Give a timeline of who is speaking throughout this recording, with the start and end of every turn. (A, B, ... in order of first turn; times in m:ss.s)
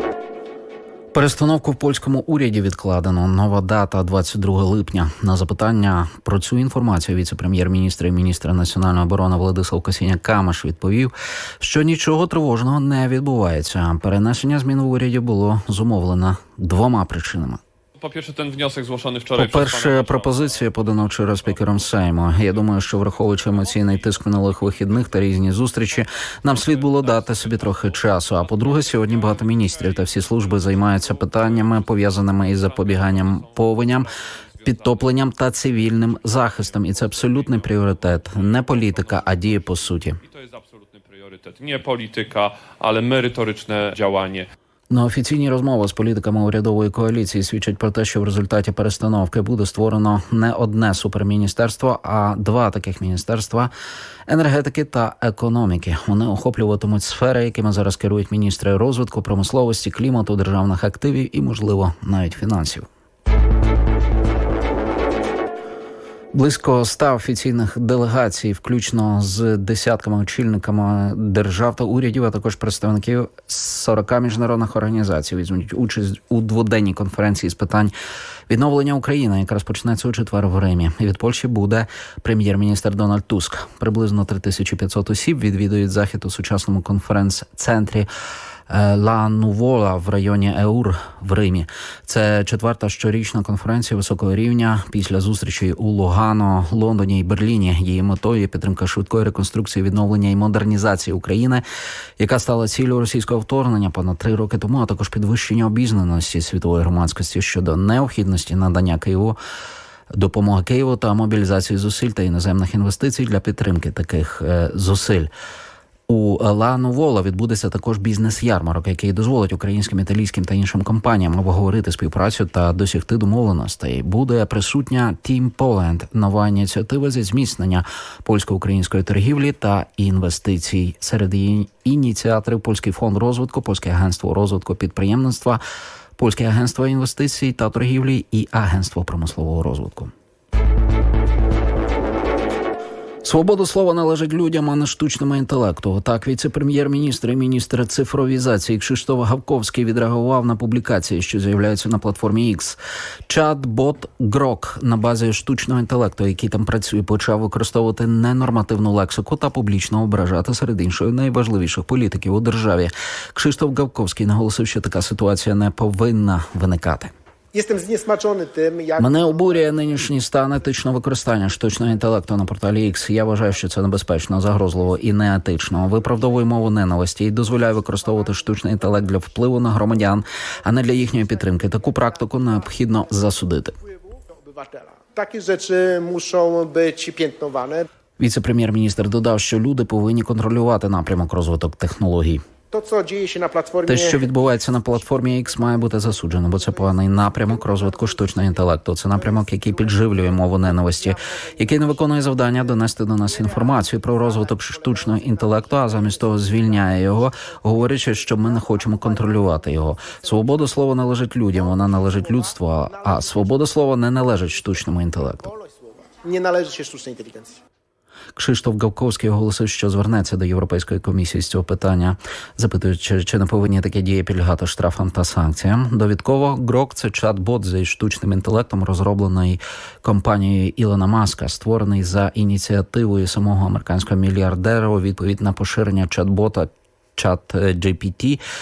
0:01.1-0:17.6 A
0:18.0-0:44.5 B
0:19.3-0:34.1 A
0:34.6-0:40.2 A
0:44.9-0:53.7 A
0:54.3-1:02.9 A
1:06.3-1:17.9 A
1:18.5-1:28.1 A
1:28.7-1:41.6 A
1:42.2-1:49.4 A
1:50.1-1:55.3 A
1:56.1-2:15.6 A
2:16.2-2:20.1 A
2:23.2-2:47.1 A
2:47.5-2:56.6 C
2:49.0-3:03.8 A
2:57.4-3:00.1 C
3:00.6-3:03.3 C
3:03.8-3:07.9 C
3:08.2-3:12.4 A
3:12.7-3:30.9 C
3:13.8-3:35.5 A
3:31.5-3:33.6 C
3:34.4-3:37.6 C
3:38.4-3:58.4 A